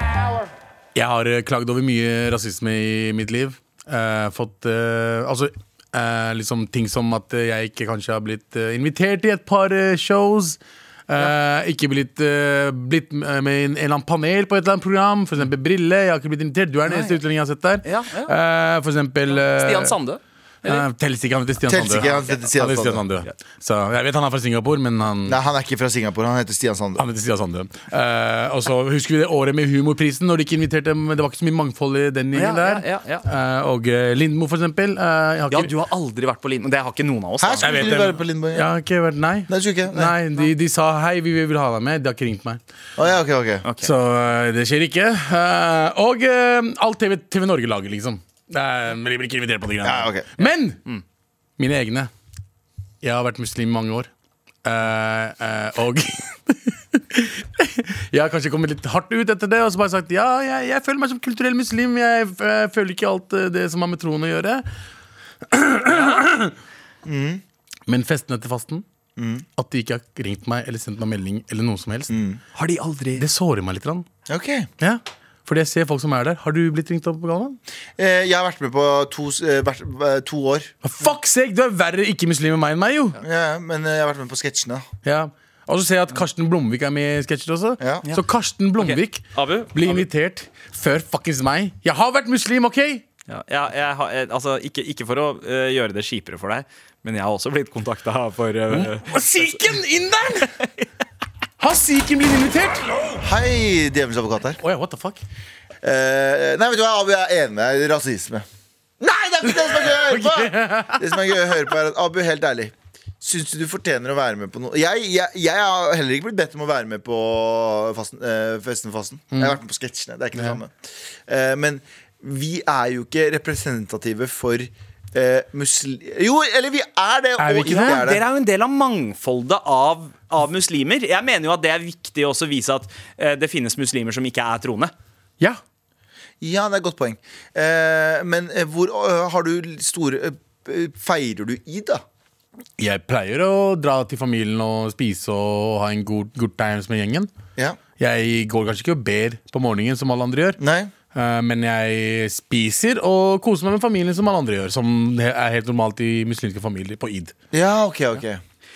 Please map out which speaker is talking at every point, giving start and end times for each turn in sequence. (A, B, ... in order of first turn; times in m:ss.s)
0:01.0-0:20.0 A
0:16.9-0:17.2 B
0:17.8-0:18.3 B
0:19.3-0:20.8 B
0:20.6-0:25.4 A
0:21.6-0:23.0 C
0:22.0-0:22.4 B
0:25.2-0:27.0 C
0:27.0-0:35.7 A
0:32.3-0:33.2 B
0:35.5-0:38.0 B
0:37.4-0:38.7 C
0:37.6-0:42.6 A
0:39.5-0:40.2 C
0:43.0-0:43.6 C
0:43.6-0:43.9 B
0:43.8-0:50.8 A
0:49.8-0:50.3 C
0:50.4-0:51.0 B
0:51.6-0:52.1 A
0:53.0-0:54.1 A
0:54.6-1:04.7 A
1:05.5-1:06.5 A
1:07.0-1:07.4 C
1:07.9-1:08.8 A
1:09.2-1:09.5 C
1:09.6-1:12.1 A
1:12.1-1:12.4 C
1:12.6-1:13.3 B
1:13.2-1:14.1 A
1:14.3-1:14.7 C
1:14.8-1:17.6 A
1:18.0-1:20.7 C
1:20.8-1:23.2 A
1:23.2-1:24.9 C
1:25.0-1:33.0 A
1:28.8-1:30.0 B
1:33.3-1:39.6 B
1:38.7-1:40.6 A
1:41.6-1:42.9 A
1:43.2-1:44.6 C
1:44.6-1:45.2 A
1:45.8-1:48.4 C
1:49.0-2:08.2 C
1:49.6-1:51.0 A
2:07.4-2:08.0 A
2:07.7-2:14.9 B
2:16.4-2:22.0 C
2:22.8-2:27.3 A
2:28.0-2:30.6 A
2:30.6-2:30.9 C
2:31.1-2:37.3 A
2:37.5-2:38.4 C